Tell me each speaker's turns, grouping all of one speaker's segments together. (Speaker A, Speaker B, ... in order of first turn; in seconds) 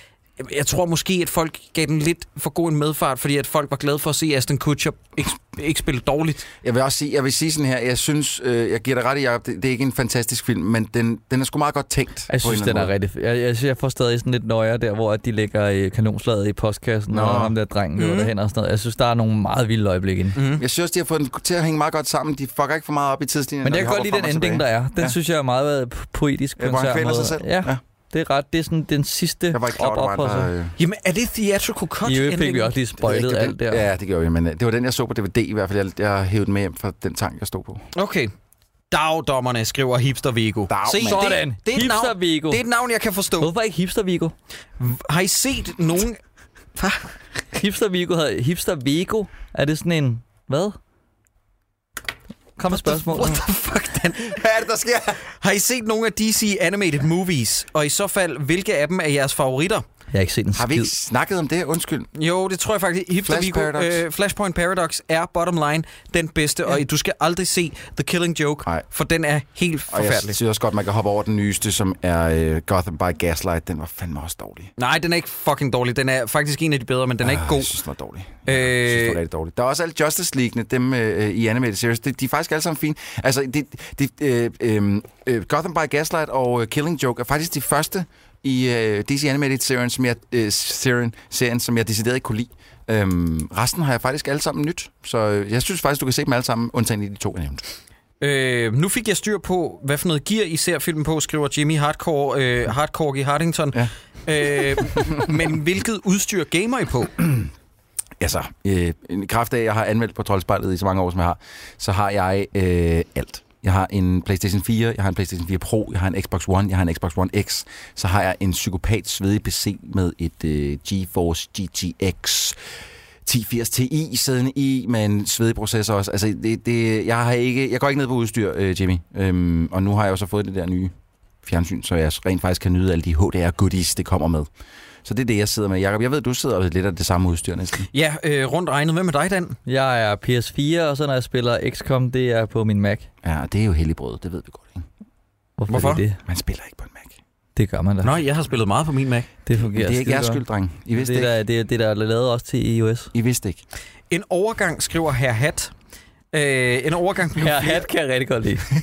Speaker A: 0.4-6.5, 18.0-18.3, 20.4-20.6, 30.8-32.8, 37.9-38.3, 38.9-43.5, 44.8-46.2, 46.8-47.1, 52.7-54.4, 55.4-59.8, 62.1-70.4, 74.8-77.8, 78.5-79.2, 98.2-107.1, 137.9-139.6, 145.7-146.0, 148.0-149.3, 154.1-155.7, 156.3-157.9
Speaker B: 6.6-12.9, 17.1-17.5, 20.6-25.1, 26.6-27.8, 29.5-30.7, 33.0-37.8, 40.7-41.4, 54.2-55.2, 60.5-62.1, 63.2-64.0, 69.9-74.7, 77.2-97.6, 108.2-122.6, 123.2-130.9, 131.4-134.5, 135.0-137.9, 143.2-144.8, 146.2-147.2, 149.6-151.3, 153.1-153.6
Speaker C: 12.3-20.4, 23.6-30.5, 32.0-33.9, 41.0-42.6, 43.4-44.3, 47.5-50.8, 52.6-53.4, 60.1-60.9, 139.7-143.1, 145.6-146.2, 147.6-148.2, 149.4-153.1, 157.4-158.7